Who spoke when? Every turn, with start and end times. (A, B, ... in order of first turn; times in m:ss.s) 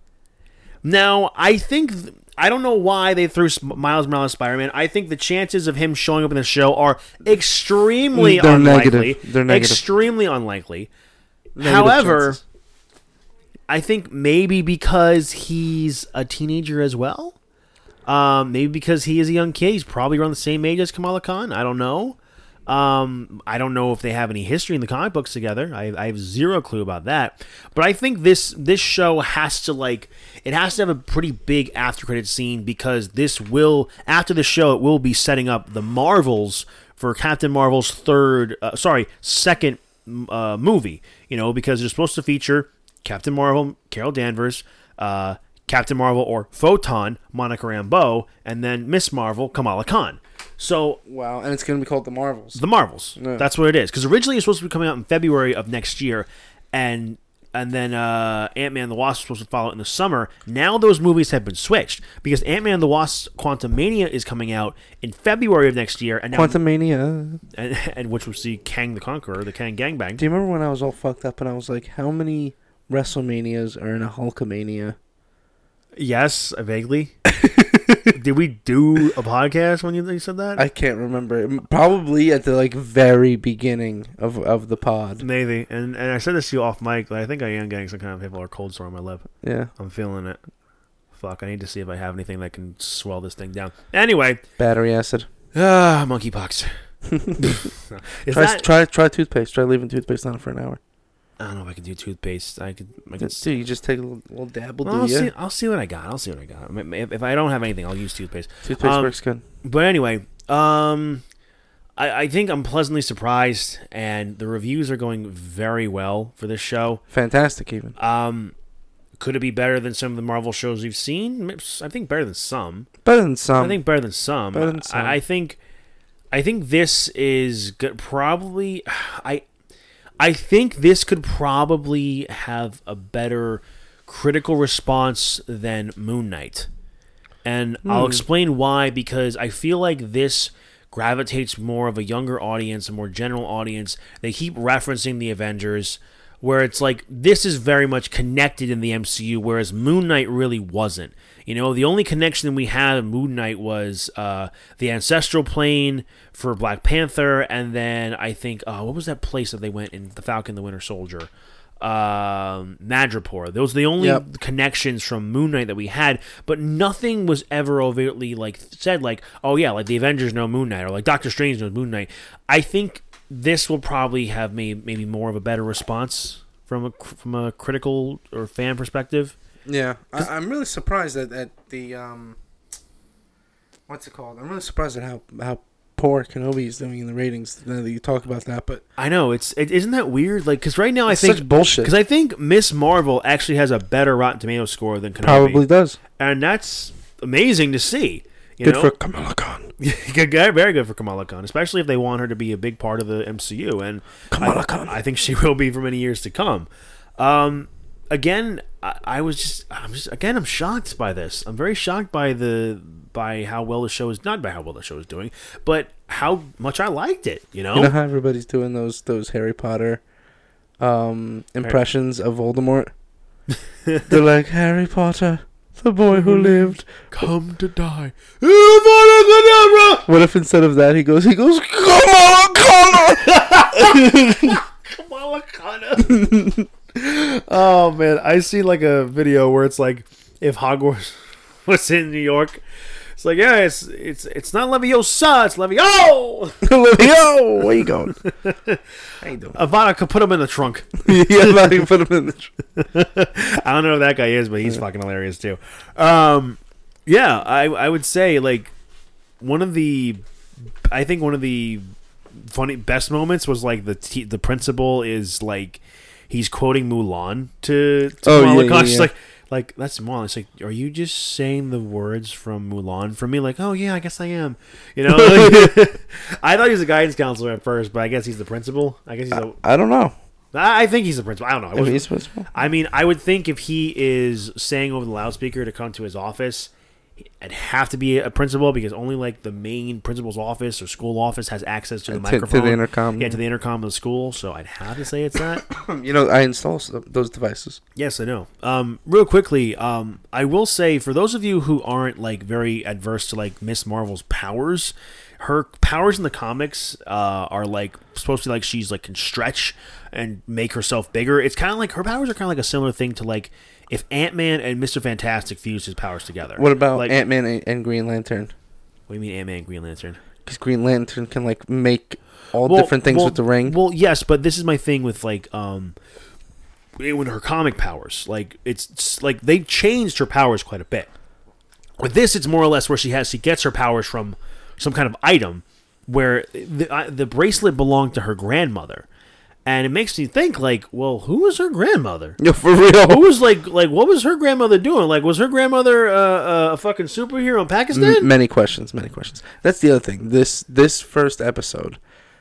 0:00.8-0:10.9 A
0:08.1-0:09.8 B
0:11.6-0:12.4 B
0:11.6-0:12.4 A
0:13.7-0:17.4 A
0:18.1-0:51.0 A
0:51.1-0:52.6 B
0:52.6-1:06.6 A
0:53.2-0:53.4 B
1:06.3-1:07.4 B
1:07.5-1:10.2 A
1:10.2-1:15.0 B
1:16.0-1:17.2 A
1:17.6-1:18.0 B
1:18.1-1:20.6 A
1:20.6-1:25.2 B
1:25.2-1:30.4 A
1:29.4-1:29.7 B
1:31.1-1:34.4 A
1:34.6-1:35.3 B
1:35.5-1:36.7 A
1:37.4-1:38.6 A
1:38.3-1:40.8 B
1:41.4-1:43.5 A
1:43.2-1:45.3 B
1:44.8-1:51.2 A
1:48.7-1:49.4 B
1:52.0-1:57.0 A
1:57.1-1:58.0 B
1:58.0-1:58.6 A
1:59.2-2:02.9 A
2:03.0-2:03.8 B
2:03.6-2:05.6 A
2:04.5-2:05.2 B
2:06.3-2:09.5 A
2:10.2-2:16.7 A
2:17.4-2:41.3 A
2:17.8-2:18.2 B
2:41.8-2:59.4 A
2:59.7-3:02.4 B
3:03.9-3:08.8 B
3:09.0-3:15.6 A
3:11.1-3:11.9 B
3:15.2-3:16.0 B
3:16.2-3:18.9 A
3:18.6-3:19.7 B
3:19.8-3:26.7 A
3:24.3-3:25.0 B
3:27.2-3:38.0 A
3:37.7-3:40.0 B
3:40.8-3:42.9 B
3:44.1-3:47.2 B
3:46.1-3:50.1 A
3:50.1-3:54.6 B
3:53.2-3:56.3 A
3:56.0-3:56.7 B
3:57.0-4:02.6 A
4:03.2-4:08.8 A
4:06.6-4:08.2 B
4:09.2-4:09.6 B
4:09.5-4:11.9 A
4:11.1-4:12.5 B
4:12.8-4:18.7 A
4:19.4-4:20.2 A
4:20.9-4:21.8 A
4:22.4-4:39.6 A
4:28.2-4:29.1 B
4:35.1-4:35.8 B
4:39.3-4:40.1 B
4:40.5-4:46.7 A
4:41.8-4:42.5 B
4:47.4-4:55.7 A
4:52.1-4:53.4 B
4:55.6-4:57.8 B
4:58.0-5:17.2 A
5:16.6-5:18.5 B
5:19.1-5:20.2 A
5:20.5-5:23.8 B
5:22.6-5:26.0 A
5:27.0-5:31.1 A
5:32.0-5:39.1 A
5:39.7-5:42.4 A
5:42.4-5:43.2 B
5:43.0-5:48.3 A
5:47.9-5:52.0 B